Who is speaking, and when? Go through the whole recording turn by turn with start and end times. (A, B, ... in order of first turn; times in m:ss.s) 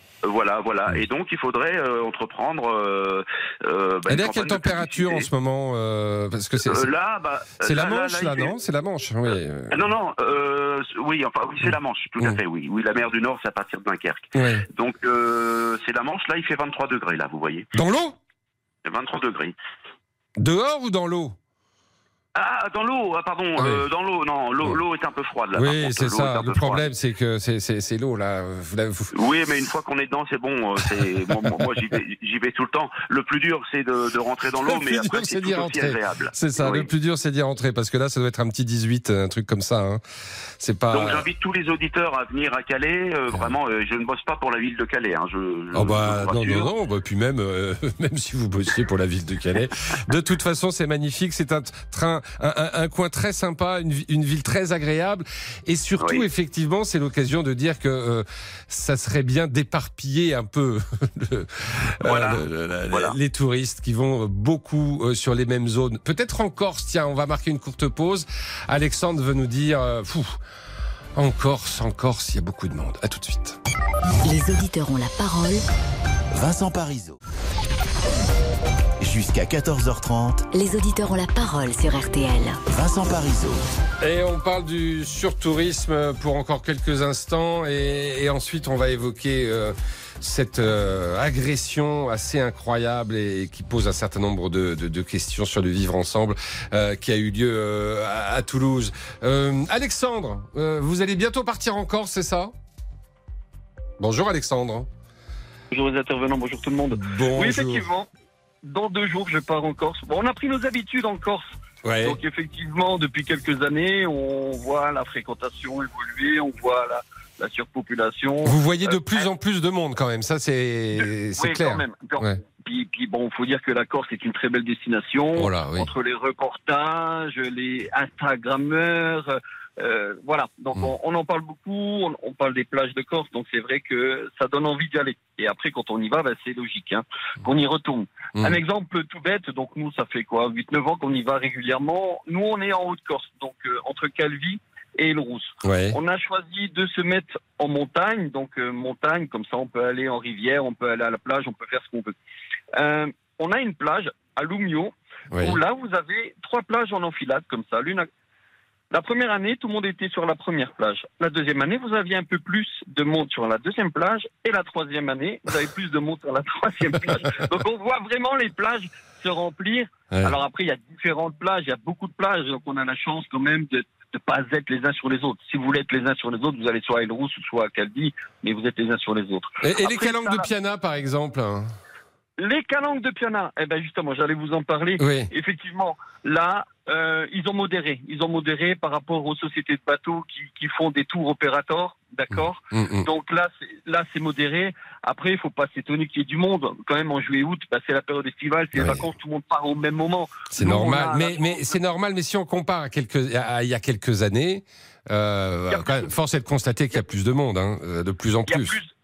0:00.2-0:05.3 A
0:04.1-0:06.9 B
0:06.6-0:08.5 A
0:07.6-0:09.8 B
0:09.7-0:17.7 A
0:14.4-0:14.6 B
0:17.7-0:18.2 B
0:18.8-0:19.5 A
0:20.4-0:21.4 B
0:22.3-0:26.9 A
0:23.6-0:23.8 B
0:25.5-0:29.1 B
0:29.1-0:36.9 A
0:31.3-0:31.6 B
0:34.6-0:40.0 B
0:40.6-0:41.2 B
0:40.9-0:46.7 A
0:45.7-1:10.4 B
0:56.0-0:56.3 A
1:02.0-1:03.2 A
1:11.2-1:13.6 B
1:14.2-1:15.6 C
1:16.3-1:17.2 D
1:19.0-1:20.5 D
1:20.5-1:22.6 C
1:22.7-1:23.6 D
1:24.0-1:42.5 B
1:44.0-1:44.9 B
1:45.7-1:48.1 E
1:46.9-1:47.8 B
1:48.6-1:51.5 E
1:51.8-1:52.2 B
1:52.0-1:59.2 E
1:58.4-2:02.4 B
2:00.9-2:32.1 E
2:05.4-2:05.9 B
2:25.6-2:26.0 B
2:32.7-2:38.1 E
2:38.9-3:00.5 E
2:50.1-2:50.4 B
2:59.6-3:01.7 B
3:02.4-3:21.8 E
3:05.0-3:05.3 B
3:12.7-3:13.1 B
3:18.7-3:19.0 B
3:20.5-3:28.8 B
3:25.7-3:26.1 E
3:28.5-3:28.9 E